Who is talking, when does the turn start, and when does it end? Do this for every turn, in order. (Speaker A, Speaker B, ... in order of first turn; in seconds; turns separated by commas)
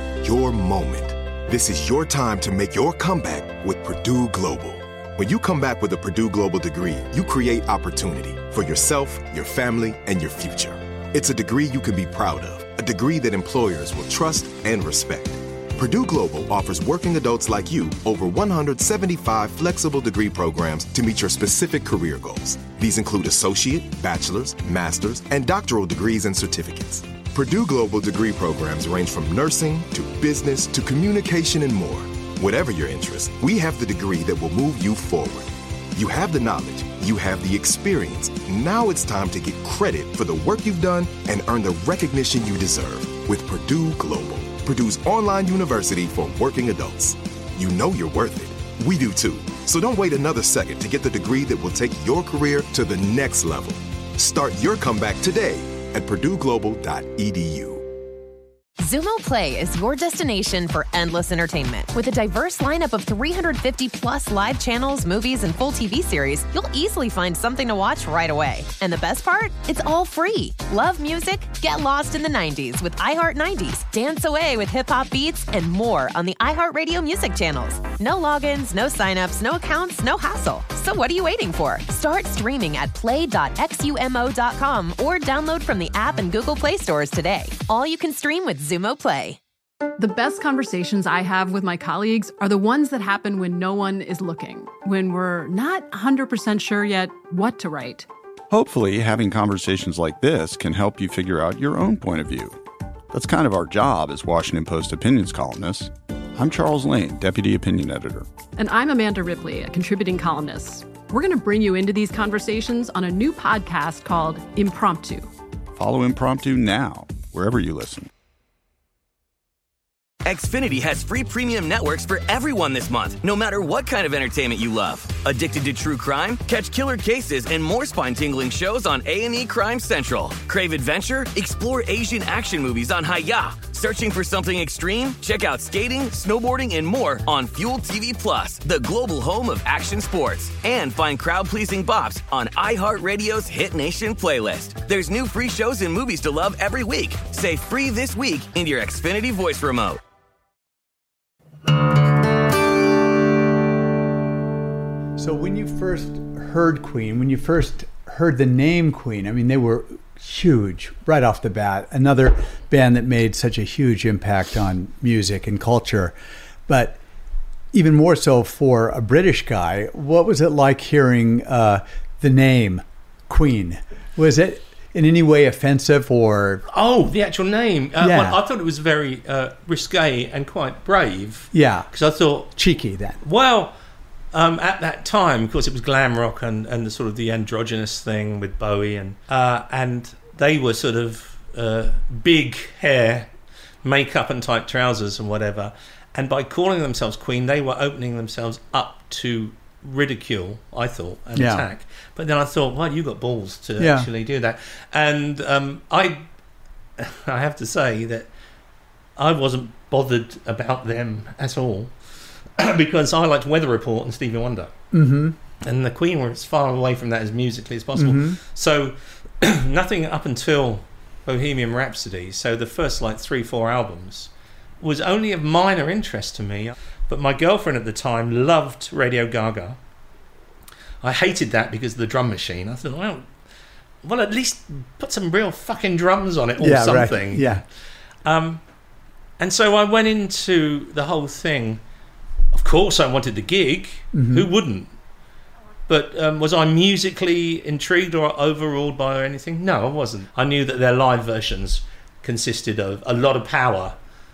Speaker A: 0.2-57.9, Speaker B: 58.8-89.4, Speaker C: 90.0-98.1, Speaker D: 98.5-102.6, Speaker D: 103.1-108.3, Speaker C: 108.6-115.3, Speaker D: 115.7-118.1, Speaker E: 120.2-150.0, Speaker F: 155.2-166.2, Speaker F: 166.7-167.0, Speaker F: 167.7-176.6, Speaker G: 176.7-182.5, Speaker F: 178.0-178.4, Speaker F: 181.5-181.9, Speaker F: 182.6-183.2, Speaker G: 183.2-183.7, Speaker G: 184.3-193.3, Speaker G: 193.8-206.2, Speaker F: 201.3-201.6, Speaker F: 203.8-204.1, Speaker G: 207.0-208.3, Speaker G: 209.2-211.9, Speaker G: 212.6-214.7, Speaker F: 214.9-215.4, Speaker G: 215.6-229.8, Speaker F: 217.9-218.4, Speaker G: 231.0-233.3, Speaker G: 234.0-237.6, Speaker F: 236.6-237.6, Speaker G: 238.2-238.6, Speaker G: 239.4-241.8, Speaker G: 242.5-244.9, Speaker F: 244.1-244.5, Speaker G: 245.9-254.0